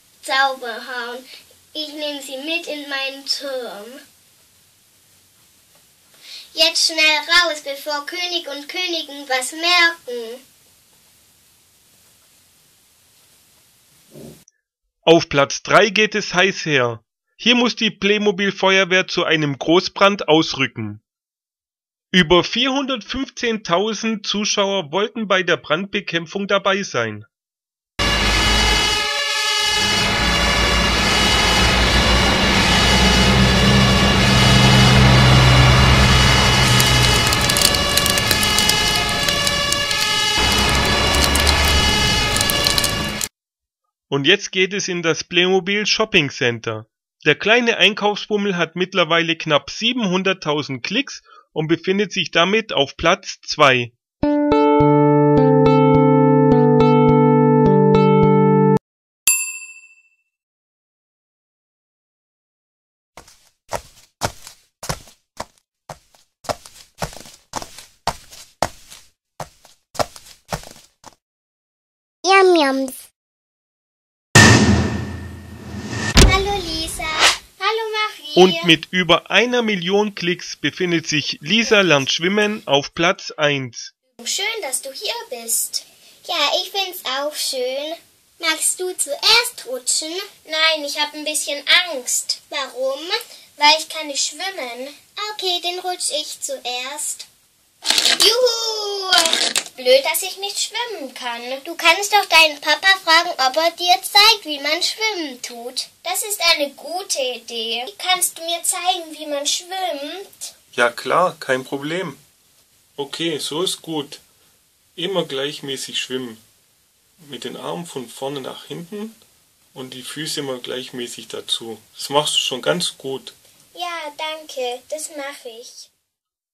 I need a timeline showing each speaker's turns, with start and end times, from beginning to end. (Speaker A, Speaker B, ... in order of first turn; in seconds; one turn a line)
Speaker A: 0.2-4.0
Speaker A: 6.5-10.4
Speaker B: 15.0-21.0
Speaker B: 22.1-27.3
Speaker B: 44.1-53.9
Speaker A: 72.2-72.9
Speaker A: 76.2-78.7
Speaker B: 78.3-83.9
Speaker A: 81.7-82.0
Speaker A: 84.2-97.3
Speaker A: 98.0-110.5
Speaker B: 110.7-112.2
Speaker B: 113.0-114.2
Speaker B: 115.0-116.4
Speaker B: 117.2-119.2
Speaker B: 119.7-123.3
Speaker A: 123.7-125.9